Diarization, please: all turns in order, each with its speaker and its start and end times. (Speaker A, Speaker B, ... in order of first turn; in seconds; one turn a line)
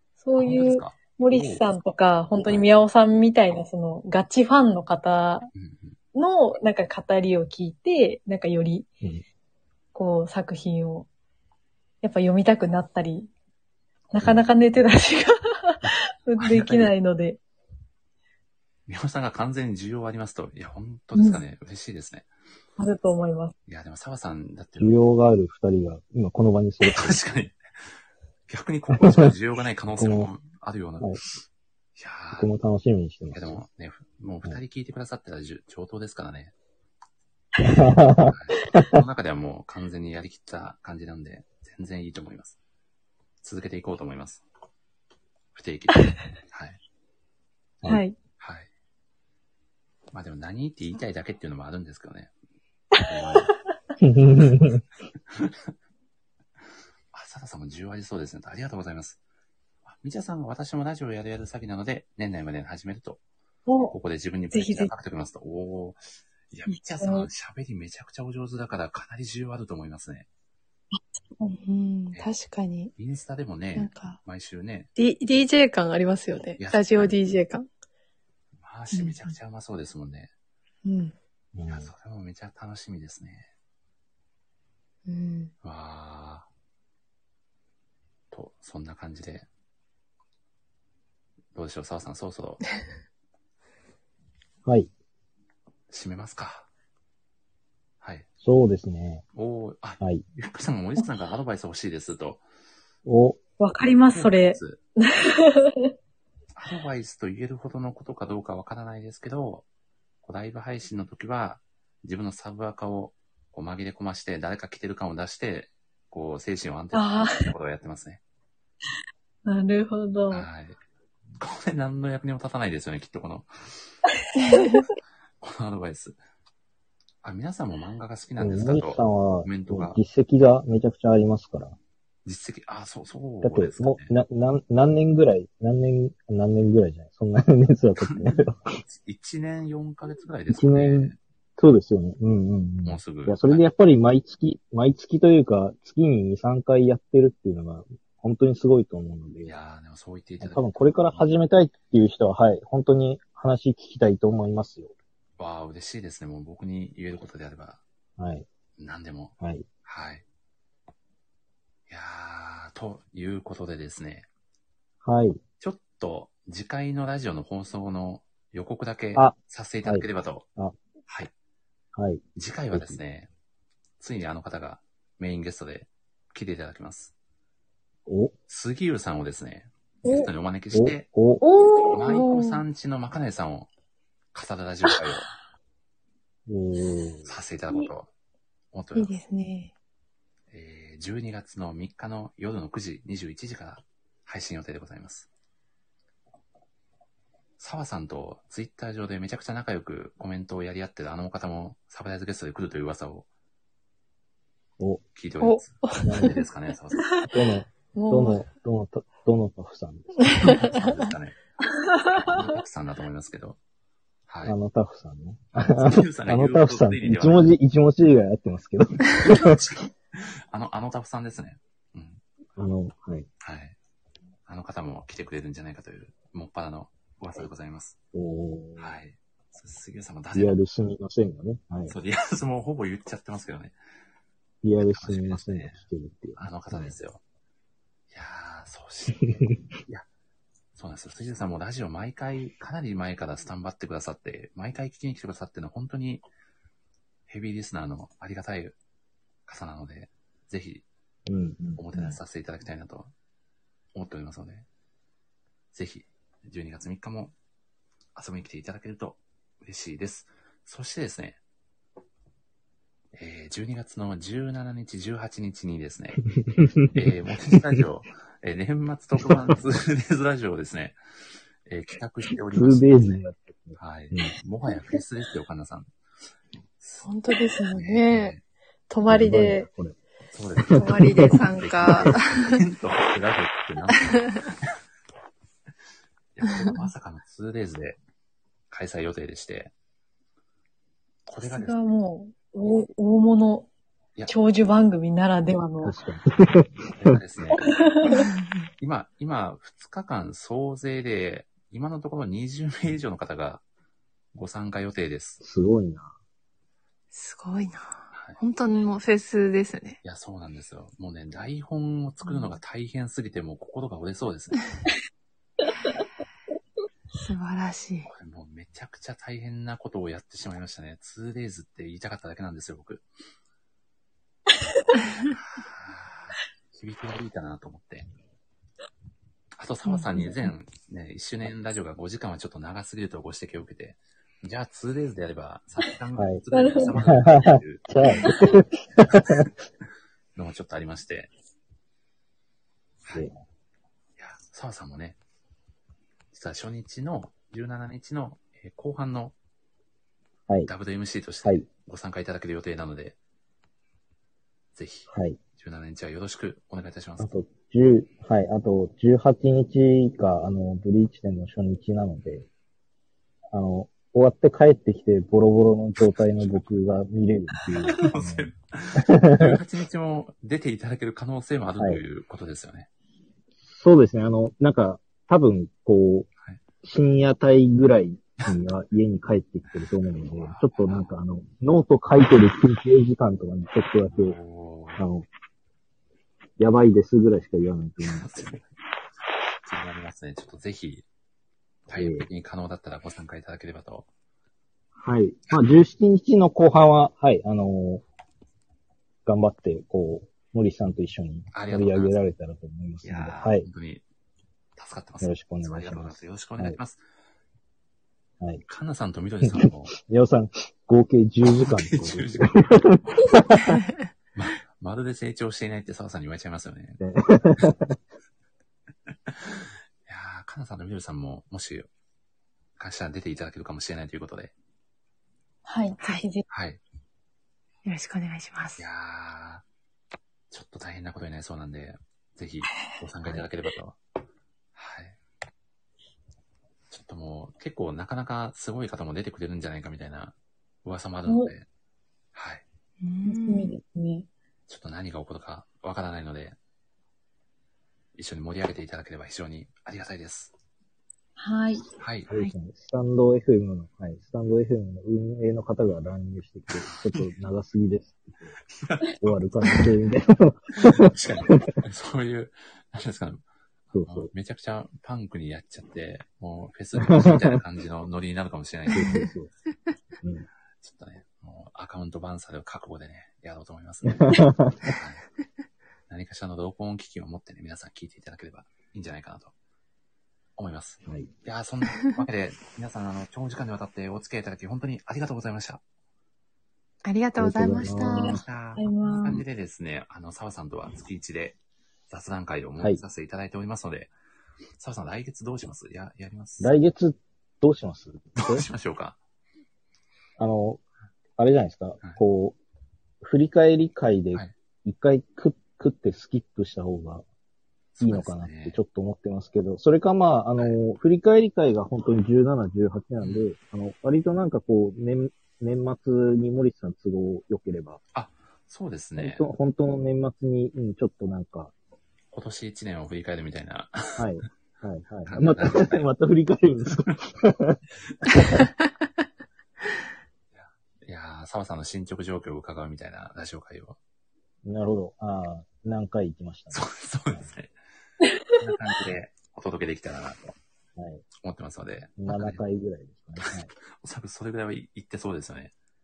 Speaker A: 0.2-5.5
Speaker B: 0.4-1.6
Speaker B: 5.5-6.0
Speaker A: 6.1-8.9
Speaker A: 9.9-11.1
Speaker A: 12.0-13.3
Speaker A: 14.1-17.4
Speaker B: 16.4-16.9
Speaker B: 18.9-22.3
Speaker A: 21.1-21.4
Speaker A: 22.8-23.5
Speaker B: 23.7-25.0
Speaker C: 24.8-27.2
Speaker B: 26.8-27.6
Speaker B: 28.5-31.2
Speaker C: 28.9-29.3
Speaker C: 30.0-30.3
Speaker B: 31.9-32.5
Speaker C: 32.3-33.6
Speaker B: 33.3-36.5
Speaker C: 37.6-39.0
Speaker B: 38.3-42.6
Speaker B: 43.4-44.4
Speaker B: 45.5-46.8
Speaker A: 47.9-48.1
Speaker B: 48.4-48.7
Speaker B: 50.1-52.3
Speaker B: 53.0-53.5
Speaker C: 54.0-54.8
Speaker B: 55.3-55.7
Speaker B: 57.1-59.2
Speaker B: 59.8-63.2
Speaker A: 63.7-63.9
Speaker B: 63.9-70.3
Speaker A: 64.5-64.9
Speaker A: 66.7-67.3
Speaker D: 71.4-72.9
Speaker B: 73.0-74.9
Speaker D: 73.7-74.2
Speaker D: 75.0-77.7
Speaker B: 76.6-77.2
Speaker B: 78.6-80.3
Speaker D: 78.9-79.3
Speaker D: 80.8-81.1
Speaker C: 81.5-81.9
Speaker B: 81.7-83.5
Speaker D: 85.0-85.5
Speaker B: 85.6-86.5
Speaker B: 88.3-89.5
Speaker B: 91.5-92.7
Speaker C: 94.6-94.9
Speaker B: 95.9-96.7
Speaker B: 98.0-98.3
Speaker C: 98.4-99.2
Speaker B: 99.3-102.4
Speaker C: 103.0-103.4
Speaker A: 103.6-105.9
Speaker B: 104.1-104.8
Speaker B: 106.5-109.7
Speaker B: 110.2-118.2
Speaker A: 116.9-117.4
Speaker A: 119.5-120.5
Speaker B: 120.3-120.8
Speaker B: 121.4-124.0
Speaker A: 124.3-124.8
Speaker B: 125.4-126.2
Speaker B: 127.2-130.0
Speaker C: 128.4-131.8
Speaker B: 132.2-134.1
Speaker C: 133.4-138.8
Speaker B: 138.0-141.2
Speaker C: 140.5-149.5
Speaker B: 142.8-143.6
Speaker B: 149.4-151.3
Speaker C: 150.4-154.9
Speaker B: 155.4-157.8
Speaker C: 158.2-158.5
Speaker B: 158.8-159.3
Speaker C: 159.4-159.7
Speaker B: 159.8-160.2
Speaker B: 161.9-164.3
Speaker C: 165.0-165.4
Speaker B: 165.6-170.5
Speaker C: 169.1-170.8
Speaker B: 171.1-171.3
Speaker C: 171.9-173.0
Speaker B: 172.3-173.3
Speaker B: 174.0-177.1
Speaker C: 178.1-178.3
Speaker B: 178.5-181.1
Speaker C: 180.7-181.4
Speaker A: 181.4-182.6
Speaker B: 181.9-183.7
Speaker B: 184.3-185.3
Speaker C: 186.5-187.3
Speaker B: 187.2-188.1
Speaker B: 188.7-189.1
Speaker D: 188.9-189.7
Speaker B: 190.5-195.3
Speaker B: 197.6-203.3
Speaker B: 205.1-207.2
Speaker D: 205.4-206.4
Speaker C: 206.0-206.4
Speaker C: 207.2-210.5
Speaker A: 207.9-208.4
Speaker B: 210.4-211.3
Speaker A: 211.9-212.2
Speaker B: 212.1-213.6
Speaker B: 214.3-214.6
Speaker C: 214.4-219.6
Speaker B: 215.7-217.5
Speaker B: 219.1-222.2
Speaker C: 222.6-223.3
Speaker B: 223.4-223.8
Speaker B: 224.5-228.0
Speaker C: 228.1-228.9
Speaker B: 228.8-230.6
Speaker C: 230.3-231.9
Speaker B: 231.9-233.7
Speaker C: 234.6-236.9
Speaker B: 234.8-235.8
Speaker B: 236.4-237.2
Speaker B: 238.1-240.1
Speaker C: 239.2-239.6
Speaker B: 240.8-246.2
Speaker B: 247.3-248.8
Speaker B: 249.5-250.8
Speaker C: 251.3-251.8
Speaker B: 251.8-253.1
Speaker B: 253.9-254.7
Speaker B: 255.7-257.3
Speaker B: 258.1-261.4
Speaker B: 263.1-266.2
Speaker C: 266.4-267.8
Speaker B: 266.9-271.0
Speaker C: 269.2-269.5
Speaker B: 271.6-273.2
Speaker C: 272.5-274.3
Speaker B: 273.8-275.9
Speaker B: 276.8-277.1
Speaker D: 277.0-278.3
Speaker B: 277.7-278.4
Speaker D: 278.9-279.7
Speaker C: 279.1-279.9
Speaker B: 280.3-284.7
Speaker C: 280.6-281.4
Speaker D: 280.7-282.6
Speaker D: 283.9-284.4
Speaker B: 286.3-288.0
Speaker D: 286.4-286.8
Speaker B: 288.7-289.7
Speaker B: 291.3-291.8
Speaker A: 291.4-293.7
Speaker A: 294.3-295.9
Speaker C: 295.8-297.2
Speaker B: 296.9-297.9
Speaker A: 297.6-298.2
Speaker D: 298.1-298.7
Speaker B: 298.8-303.6
Speaker B: 304.3-305.4
Speaker C: 305.4-306.1
Speaker D: 307.1-310.0
Speaker B: 308.1-308.4
Speaker B: 310.0-314.7
Speaker D: 312.3-312.6
Speaker D: 317.1-318.1
Speaker B: 318.1-323.1
Speaker B: 325.3-328.1
Speaker B: 329.6-337.9
Speaker D: 329.9-330.3
Speaker C: 336.1-336.4
Speaker A: 336.5-336.9
Speaker C: 336.9-339.5
Speaker B: 339.0-339.5
Speaker B: 340.4-341.3
Speaker B: 343.0-343.3
Speaker B: 344.2-345.2
Speaker B: 346.3-349.3
Speaker B: 350.7-353.2
Speaker B: 354.7-357.3
Speaker C: 355.1-355.4
Speaker C: 357.2-362.4
Speaker C: 363.5-369.6
Speaker B: 366.0-366.7
Speaker B: 367.7-372.9
Speaker C: 371.8-372.0
Speaker C: 373.6-376.3
Speaker C: 376.8-384.4
Speaker B: 379.7-381.1
Speaker B: 384.1-385.1
Speaker C: 385.0-385.3
Speaker C: 386.6-388.5
Speaker B: 388.0-388.6
Speaker B: 389.6-391.1
Speaker B: 391.9-394.1
Speaker C: 391.9-392.3
Speaker C: 394.9-398.0
Speaker C: 399.2-403.7
Speaker B: 401.5-402.1
Speaker B: 403.0-404.0
Speaker B: 404.8-407.0
Speaker C: 405.2-406.8
Speaker B: 408.7-409.9
Speaker C: 409.4-413.8
Speaker B: 411.4-413.4
Speaker B: 414.3-417.0
Speaker C: 417.0-417.9
Speaker B: 419.3-421.9
Speaker B: 422.8-424.5
Speaker A: 425.6-426.4
Speaker B: 426.5-426.8
Speaker D: 427.8-428.8
Speaker B: 428.8-429.6
Speaker B: 430.5-434.0
Speaker B: 434.7-435.2
Speaker B: 436.9-441.6
Speaker A: 441.3-441.5
Speaker B: 442.3-442.6
Speaker D: 443.0-443.8
Speaker A: 443.2-444.3
Speaker B: 444.7-446.6
Speaker B: 448.1-450.5
Speaker A: 451.4-451.8
Speaker B: 452.0-452.3
Speaker C: 452.3-458.5
Speaker B: 456.8-457.3
Speaker B: 458.8-459.8
Speaker C: 459.2-461.8
Speaker B: 460.8-463.4
Speaker C: 463.9-464.3
Speaker B: 463.9-469.1
Speaker C: 467.0-467.6
Speaker C: 468.9-469.5
Speaker D: 468.9-469.3
Speaker C: 470.2-470.5
Speaker B: 470.8-475.2
Speaker C: 474.1-474.9
Speaker B: 476.1-479.5
Speaker B: 480.6-485.8
Speaker D: 487.0-488.4
Speaker C: 487.4-488.4
Speaker B: 488.2-491.6
Speaker A: 488.3-489.4
Speaker B: 492.1-494.1
Speaker B: 494.8-496.7
Speaker C: 496.6-498.6
Speaker B: 498.4-499.2
Speaker C: 500.4-500.8
Speaker C: 501.4-502.6
Speaker C: 503.2-507.2
Speaker B: 507.9-508.8
Speaker C: 508.0-518.0
Speaker B: 513.2-513.5
Speaker B: 518.1-519.5
Speaker C: 519.2-521.7
Speaker B: 522.3-524.3
Speaker C: 524.2-527.8
Speaker B: 525.2-526.0
Speaker B: 530.5-534.0
Speaker C: 534.6-537.5
Speaker B: 536.7-537.7
Speaker B: 538.5-540.5
Speaker C: 541.0-541.2
Speaker B: 541.4-542.6
Speaker C: 542.2-543.7
Speaker B: 543.4-545.7